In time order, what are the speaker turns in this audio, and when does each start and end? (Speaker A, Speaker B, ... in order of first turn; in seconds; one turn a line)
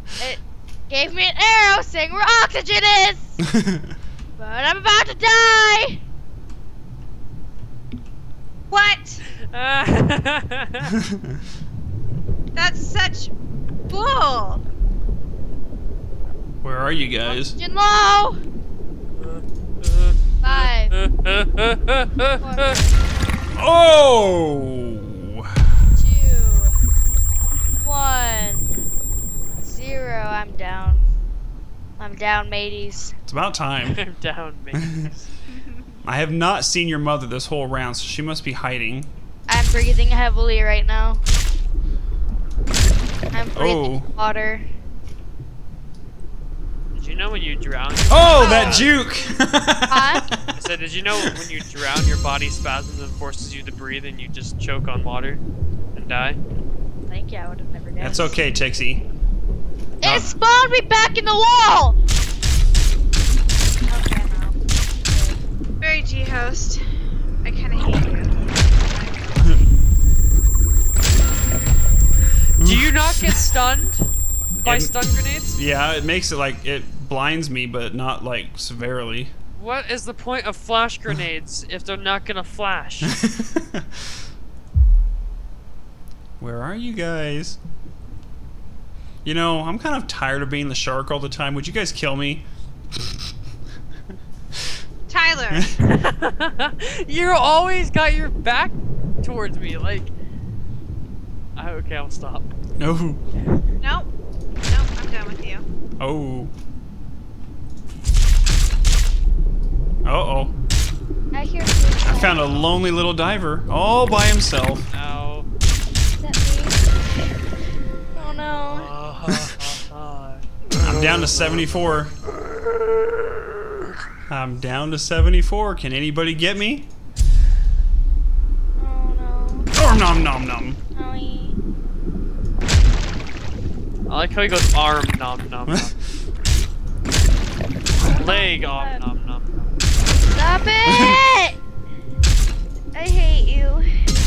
Speaker A: 0.2-3.4
Speaker B: 3.5-3.8
Speaker A: 4.4-6.0
Speaker C: 8.7-9.2
Speaker D: 9.3-10.9
Speaker B: 11.0-11.3
Speaker C: 12.6-13.3
Speaker C: 13.9-14.6
Speaker B: 16.6-17.6
Speaker A: 17.2-18.4
Speaker D: 19.2-22.8
Speaker A: 20.4-20.9
Speaker A: 22.4-23.5
Speaker B: 23.5-25.5
Speaker A: 25.9-26.7
Speaker A: 27.8-28.7
Speaker A: 29.6-31.0
Speaker A: 32.0-33.1
Speaker B: 33.3-34.0
Speaker D: 33.8-35.3
Speaker C: 35.5-35.9
Speaker B: 36.0-39.1
Speaker A: 39.5-41.2
Speaker A: 43.3-44.6
Speaker B: 43.5-44.1
Speaker D: 46.9-48.9
Speaker B: 48.1-50.3
Speaker A: 48.4-48.9
Speaker A: 49.9-50.2
Speaker D: 50.5-55.4
Speaker D: 55.9-56.4
Speaker A: 57.1-58.4
Speaker B: 58.0-59.0
Speaker A: 60.0-62.0
Speaker B: 60.0-60.3
Speaker A: 63.9-65.4
Speaker C: 65.8-66.8
Speaker C: 67.4-69.7
Speaker D: 72.6-75.6
Speaker B: 72.6-73.4
Speaker B: 74.6-74.9
Speaker B: 75.5-79.3
Speaker D: 79.5-83.1
Speaker B: 83.0-83.9
Speaker B: 86.4-87.6
Speaker B: 89.2-92.4
Speaker C: 95.1-95.7
Speaker D: 95.8-100.1
Speaker D: 101.5-102.5
Speaker B: 102.8-103.2
Speaker C: 103.8-104.1
Speaker C: 104.7-105.6
Speaker B: 106.0-106.5
Speaker B: 110.0-110.5
Speaker A: 111.3-112.5
Speaker B: 112.0-114.9
Speaker D: 114.9-115.5
Speaker A: 116.2-117.3
Speaker A: 118.1-118.9
Speaker D: 118.7-122.1
Speaker B: 120.8-122.1
Speaker B: 124.3-126.9
Speaker A: 128.8-129.7
Speaker B: 129.7-130.8
Speaker A: 130.9-131.6
Speaker D: 134.1-135.9
Speaker B: 135.7-135.9
Speaker A: 137.9-139.0
Speaker D: 138.1-139.7
Speaker A: 140.3-141.6
Speaker B: 140.8-141.2
Speaker A: 142.9-143.9